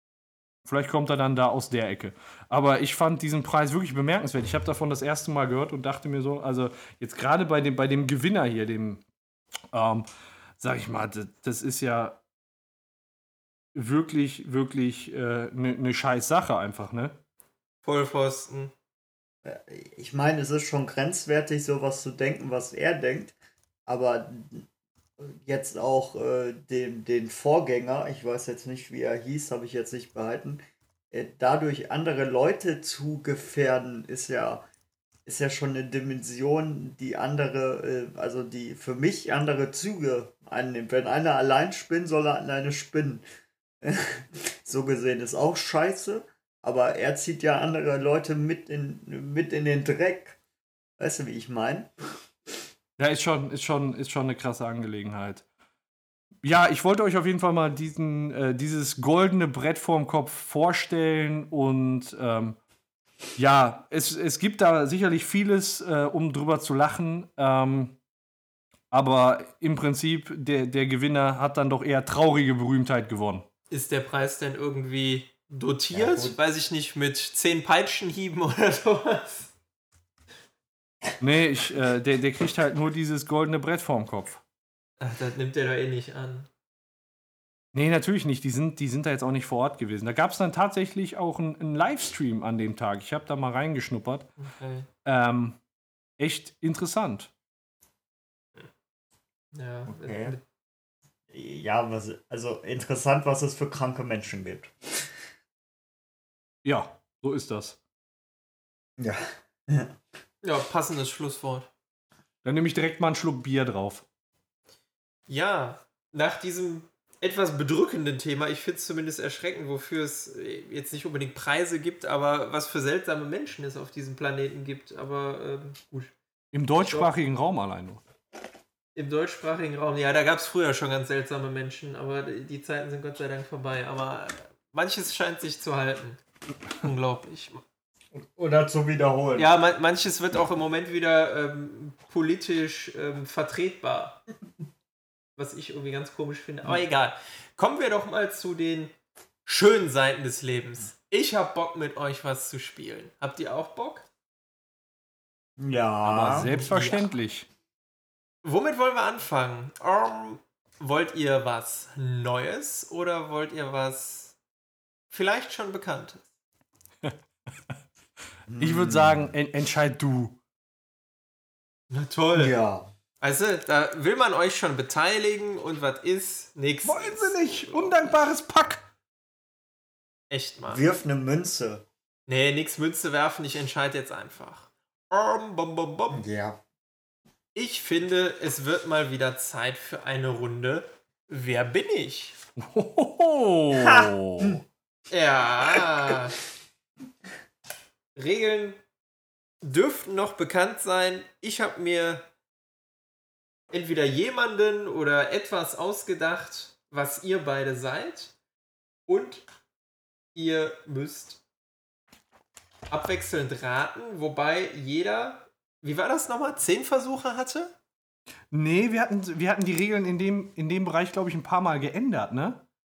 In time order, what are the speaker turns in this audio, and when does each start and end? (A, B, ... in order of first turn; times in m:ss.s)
0:00.6-0:09.0 A
0:09.7-0:10.1 A
0:10.6-0:12.2 A
0:13.7-0:17.2 A
0:17.8-0:18.7 B
0:19.4-0:23.3 C
0:23.9-0:24.7 C
0:25.2-0:34.6 C
0:35.2-0:43.2 C
0:43.8-0:50.4 C
0:51.0-0:51.9 C
0:53.0-0:55.4 A
0:56.4-1:02.6 A
1:03.4-1:08.0 A
1:08.9-1:13.4 A
1:13.7-1:19.5 B
1:15.9-1:16.4 C
1:21.2-1:24.4 A
1:25.0-1:26.5 B
1:27.7-1:34.3 A
1:34.4-1:34.9 B
1:35.0-1:35.6 A
1:36.2-1:37.3 A
1:39.5-1:40.4 B
1:39.8-1:40.4 C
1:41.3-1:45.0 C
1:46.6-1:47.8 A
1:49.0-1:49.9 C
1:50.4-1:51.7 B
1:52.4-1:54.0 A
1:55.3-2:06.1 B
2:06.5-2:08.0 A
2:06.8-2:07.1 B
2:09.0-2:17.6 B
2:18.2-2:19.5 C
2:19.4-2:24.2 B
2:25.4-2:28.9 B
2:29.4-2:34.0 B
2:35.6-2:36.5 C
2:36.0-2:37.5 A
2:36.5-2:37.1 B
2:38.4-2:44.3 B
2:45.1-2:46.2 B
2:48.5-2:49.3 C
2:48.6-2:50.4 A
2:51.9-2:52.6 B
2:52.4-2:52.9 C
2:53.2-2:58.2 B
2:56.8-2:58.8 A
3:00.3-3:00.8 B
3:00.7-3:01.8 C
3:02.3-3:06.2 B
3:06.1-3:06.6 C
3:07.5-3:12.4 B
3:12.6-3:14.6 A
3:15.1-3:16.4 B
3:18.2-3:18.8 B
3:19.6-3:22.3 B
3:23.7-3:28.3 B
3:29.1-3:29.4 B
3:30.3-3:31.4 B
3:32.9-3:37.7 B
3:38.5-3:42.6 A